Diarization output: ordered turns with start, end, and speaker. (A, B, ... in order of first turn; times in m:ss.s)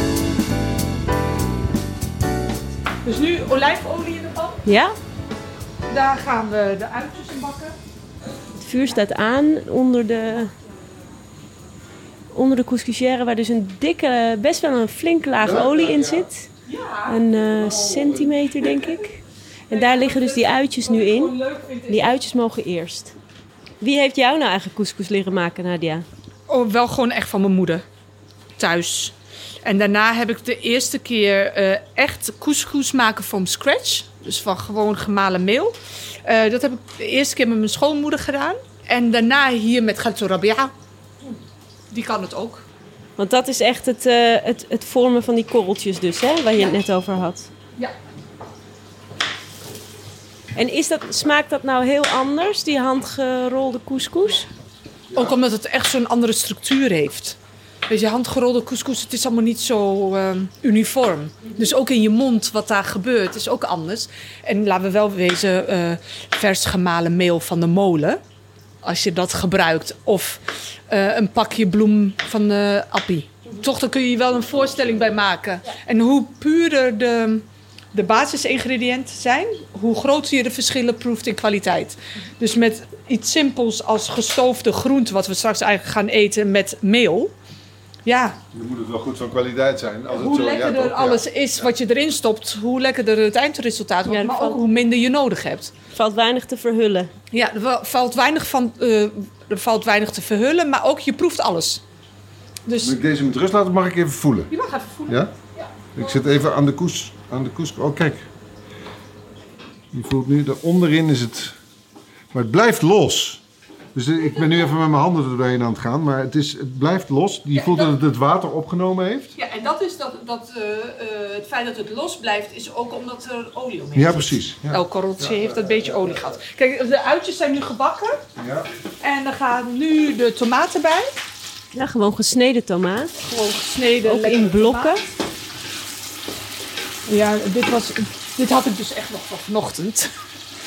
0:03.0-0:04.6 A
0:04.6-0:04.9 B
0:05.9-0:07.8 A
0:08.6-0:10.5 B
0:12.3-0:16.5 B
0:15.4-0:16.3 C
0:16.6-0:17.8 A
0:17.1-0:21.3 B
0:18.0-0:18.2 C
0:19.7-0:22.2 A
0:21.9-0:23.1 B
0:23.8-0:26.0 B
0:26.5-0:27.8 A
0:28.6-0:40.7 A
0:41.9-0:42.6 A
0:43.2-0:47.5 B
0:50.5-0:54.5 B
0:55.1-0:57.4 A
0:57.9-1:08.2 A
1:08.8-1:27.3 A
1:28.0-1:28.4 A
1:28.5-1:31.6 C
1:30.1-1:35.7 A
1:34.1-1:34.6 B
1:35.9-1:37.1 B
1:37.3-1:41.8 A
1:42.6-1:42.9 A
1:42.8-1:44.5 C
1:44.5-1:46.1 A
1:45.1-1:45.3 C
1:45.9-1:48.2 C
1:49.9-1:51.6 C
1:52.3-1:53.4 C
1:53.9-1:59.3 C
1:57.6-1:57.9 A
1:59.4-2:08.2 A
2:03.9-2:06.3 C
2:08.4-2:08.7 C
2:09.0-2:11.1 A
2:11.7-2:13.2 B
2:13.2-2:15.1 A
2:14.0-2:15.0 B
2:17.1-2:20.1 A